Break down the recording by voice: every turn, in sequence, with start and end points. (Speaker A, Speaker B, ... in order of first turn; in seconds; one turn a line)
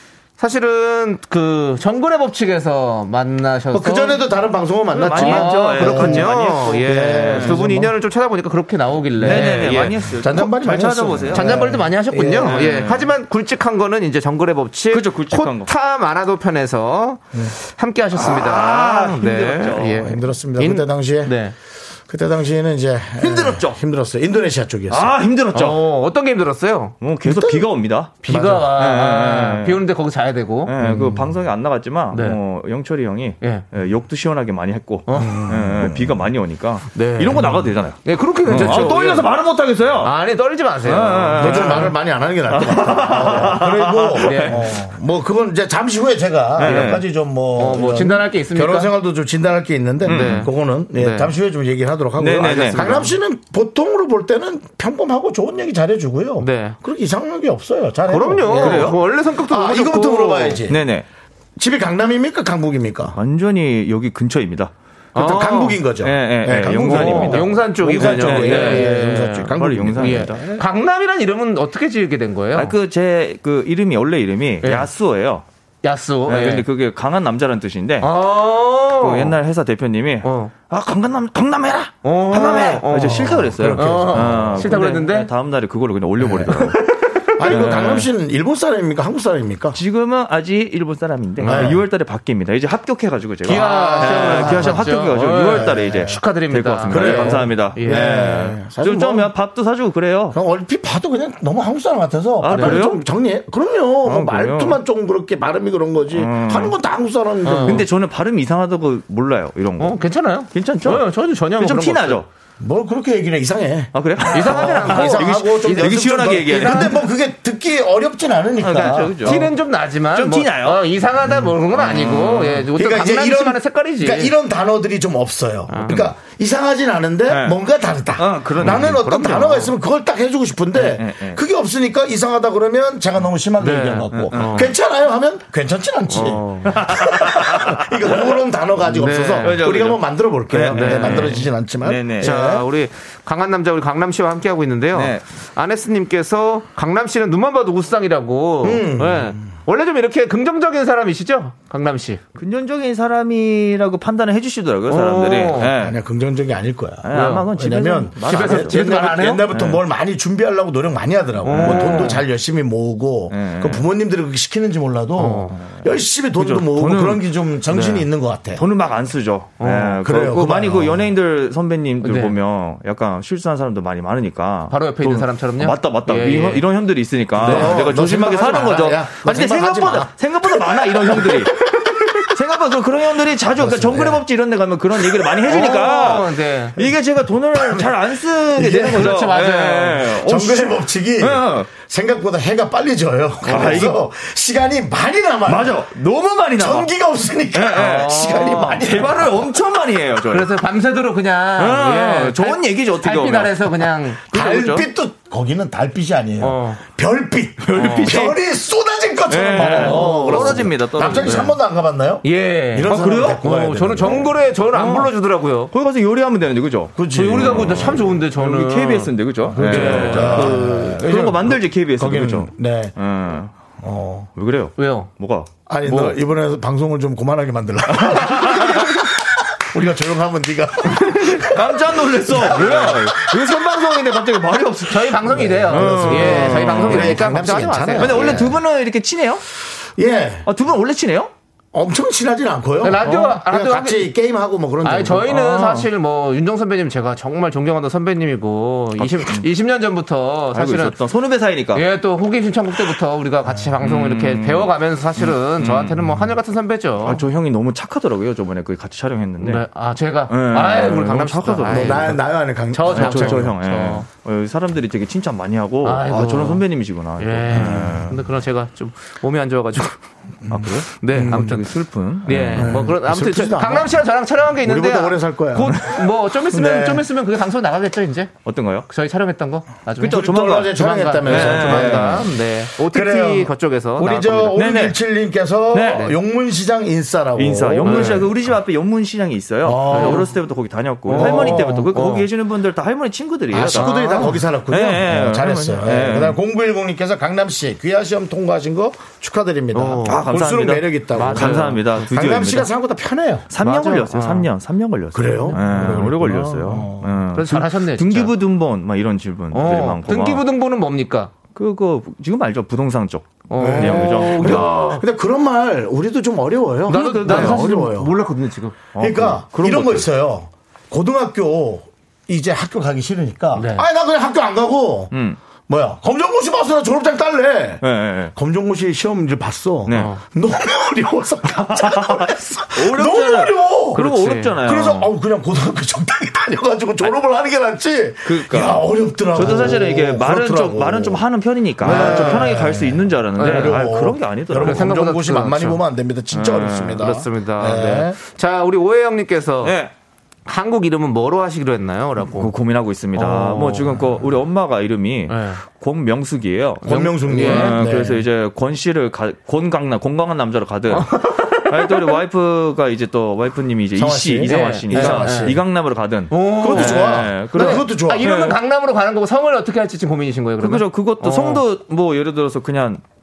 Speaker A: 0.4-4.2
Speaker B: 3.7-7.9
Speaker C: 4.9-7.6
Speaker A: 5.0-10.0
Speaker C: 9.2-11.6
Speaker B: 9.2-12.7
Speaker A: 11.3-21.6
Speaker C: 12.4-13.1
Speaker C: 14.9-15.7
Speaker C: 18.1-20.1
Speaker B: 19.9-21.4
Speaker B: 22.1-25.2
Speaker C: 23.2-23.8
Speaker C: 24.9-25.8
Speaker A: 25.5-27.0
Speaker C: 27.0-29.8
Speaker B: 27.2-27.6
Speaker A: 28.2-31.1
Speaker C: 30.6-40.1
Speaker A: 32.1-32.4
Speaker A: 35.1-35.5
Speaker B: 35.2-36.2
Speaker A: 36.9-39.3
Speaker A: 40.0-41.9
Speaker C: 40.8-42.0
Speaker B: 41.4-60.9
Speaker C: 42.5-44.6
Speaker A: 44.2-44.7
Speaker C: 46.6-47.0
Speaker A: 46.6-47.0
Speaker A: 47.5-48.9
Speaker C: 50.0-50.5
Speaker A: 50.1-51.3
Speaker C: 52.2-53.0
Speaker A: 52.4-53.1
Speaker A: 56.4-56.8
Speaker A: 58.1-60.6
Speaker C: 58.5-59.0
Speaker C: 60.7-61.1
Speaker B: 61.6-63.2
Speaker C: 63.1-64.7
Speaker A: 65.2-65.8
Speaker B: 65.2-70.6
Speaker C: 66.0-70.5
Speaker A: 66.7-72.8
Speaker C: 72.5-75.4
Speaker A: 74.6-74.9
Speaker A: 75.8-76.7
Speaker C: 76.3-78.1
Speaker A: 78.0-79.4
Speaker C: 79.0-86.8
Speaker A: 80.2-80.5
Speaker A: 82.0-85.3
Speaker B: 83.0-84.6
Speaker B: 86.2-86.6
Speaker A: 86.5-87.8
Speaker B: 87.4-89.8
Speaker C: 87.4-88.1
Speaker C: 89.7-100.4
Speaker B: 91.4-91.8
Speaker A: 91.4-91.8
Speaker A: 93.4-98.2
Speaker B: 93.5-94.9
Speaker B: 95.5-96.2
Speaker B: 96.9-99.3
Speaker B: 100.3-107.9
Speaker C: 102.4-103.0
Speaker A: 102.5-102.8
Speaker C: 104.0-104.8
Speaker C: 106.1-106.8
Speaker A: 107.4-107.8
Speaker C: 107.6-110.0
Speaker A: 109.8-112.2
Speaker C: 110.5-112.3
Speaker B: 112.6-119.5
Speaker C: 113.9-117.0
Speaker A: 114.3-116.9
Speaker C: 118.6-119.5
Speaker A: 119.2-124.3
Speaker C: 120.1-120.8
Speaker C: 121.7-122.7
Speaker B: 122.8-142.7
Speaker A: 125.7-126.1
Speaker C: 125.9-126.1
Speaker C: 127.3-127.6
Speaker C: 128.2-129.0
Speaker A: 128.6-129.7
Speaker C: 130.8-131.4
Speaker A: 133.6-134.7
Speaker C: 134.1-134.7
Speaker A: 136.1-136.8
Speaker C: 136.7-138.3
Speaker A: 138.8-139.6
Speaker C: 139.4-142.4
Speaker A: 140.7-141.5
Speaker A: 142.2-152.2
Speaker C: 144.9-145.2
Speaker B: 148.6-149.5
Speaker C: 152.4-156.0
Speaker A: 154.9-155.7
Speaker B: 155.8-168.6
Speaker C: 157.0-158.8
Speaker A: 157.1-157.5
Speaker A: 158.2-159.5
Speaker C: 159.5-159.8
Speaker A: 161.4-162.2
Speaker C: 161.5-162.2
Speaker C: 163.3-163.8
Speaker A: 165.2-165.6
Speaker C: 165.6-165.8
Speaker C: 166.4-167.2
Speaker A: 167.7-168.0
Speaker C: 168.6-191.7
Speaker A: 169.6-170.0
Speaker B: 170.0-171.1
Speaker A: 172.0-172.3
Speaker A: 174.7-176.7
Speaker B: 177.4-180.1
Speaker A: 177.4-177.8
Speaker B: 180.7-181.4
Speaker B: 183.6-184.2
Speaker A: 185.4-186.8
Speaker B: 187.5-187.9
Speaker B: 188.5-189.2
Speaker A: 188.8-190.2
Speaker B: 190.1-195.8
Speaker A: 193.4-193.9
Speaker C: 193.5-194.0
Speaker C: 195.5-196.9
Speaker B: 196.6-199.5
Speaker C: 197.5-200.5
Speaker A: 198.0-198.9
Speaker A: 200.3-204.4
Speaker C: 201.6-204.9
Speaker B: 204.3-214.3
Speaker A: 206.4-206.8
Speaker A: 207.7-208.3
Speaker C: 207.7-208.3
Speaker C: 209.3-211.5
Speaker A: 209.6-211.5
Speaker A: 212.2-215.7
Speaker C: 212.9-213.4
Speaker C: 214.7-215.1
Speaker C: 215.7-223.6
Speaker B: 216.9-218.1
Speaker A: 217.1-220.7
Speaker B: 219.5-222.9
Speaker B: 223.8-224.3
Speaker C: 224.4-225.5
Speaker A: 224.8-225.1
Speaker B: 225.7-233.2
Speaker A: 225.9-226.1
Speaker C: 227.9-229.0
Speaker C: 231.3-237.4
Speaker A: 234.8-238.5
Speaker B: 235.3-238.6
Speaker C: 238.0-239.4
Speaker B: 240.0-240.5
Speaker C: 240.5-241.3
Speaker B: 241.7-245.4
Speaker A: 242.8-244.1
Speaker C: 243.1-243.4
Speaker A: 244.8-251.0
Speaker C: 245.3-245.9
Speaker C: 249.0-249.5
Speaker C: 250.5-251.9
Speaker A: 251.7-257.2
Speaker C: 253.8-256.2
Speaker C: 257.0-259.6
Speaker A: 259.4-264.1
Speaker C: 260.3-262.2
Speaker B: 261.7-263.6
Speaker C: 262.9-268.2
Speaker A: 265.8-266.6
Speaker A: 267.2-270.0
Speaker B: 267.5-268.1
Speaker C: 270.5-272.8
Speaker B: 270.5-271.5
Speaker A: 270.5-278.3
Speaker B: 272.5-274.0
Speaker B: 274.6-277.1
Speaker C: 278.4-278.9
Speaker A: 278.9-284.6
Speaker C: 280.0-282.3
Speaker B: 280.0-288.5
Speaker C: 284.6-285.0
Speaker C: 285.7-286.1
Speaker C: 287.4-296.4
Speaker A: 287.9-288.3
Speaker B: 289.6-290.3
Speaker A: 289.9-290.3
Speaker A: 291.1-292.3
Speaker B: 291.1-291.9
Speaker B: 293.5-303.5
Speaker A: 293.6-294.4
Speaker A: 299.7-300.2
Speaker C: 300.0-302.7
Speaker A: 301.1-302.0
Speaker C: 303.5-310.4
Speaker A: 303.6-304.5
Speaker B: 305.1-307.2
Speaker A: 305.3-306.0
Speaker A: 307.3-308.4
Speaker A: 309.5-311.3
Speaker C: 311.5-314.8
Speaker A: 313.5-315.0
Speaker B: 313.6-318.1
Speaker A: 316.9-318.8
Speaker C: 316.9-317.7
Speaker C: 318.9-320.1
Speaker B: 319.0-325.1
Speaker A: 323.6-323.8
Speaker C: 325.1-325.4
Speaker B: 325.7-334.1
Speaker C: 327.8-328.3
Speaker C: 329.9-330.2
Speaker A: 329.9-330.2
Speaker C: 331.7-335.1
Speaker A: 333.9-334.6
Speaker B: 334.6-341.2
Speaker C: 338.2-344.9
Speaker B: 341.8-348.2
Speaker A: 341.8-342.5
Speaker A: 343.4-343.8
Speaker A: 344.5-345.8
Speaker C: 346.3-347.1
Speaker A: 347.0-349.8
Speaker C: 349.6-349.9
Speaker A: 350.5-352.5
Speaker C: 352.4-368.6
Speaker A: 353.1-354.1
Speaker A: 355.3-355.6
Speaker B: 356.8-358.2
Speaker A: 356.9-357.8
Speaker A: 360.9-362.2
Speaker B: 364.0-365.6
Speaker A: 364.4-365.6
Speaker A: 366.3-371.6
Speaker B: 366.6-368.3
Speaker C: 370.6-373.0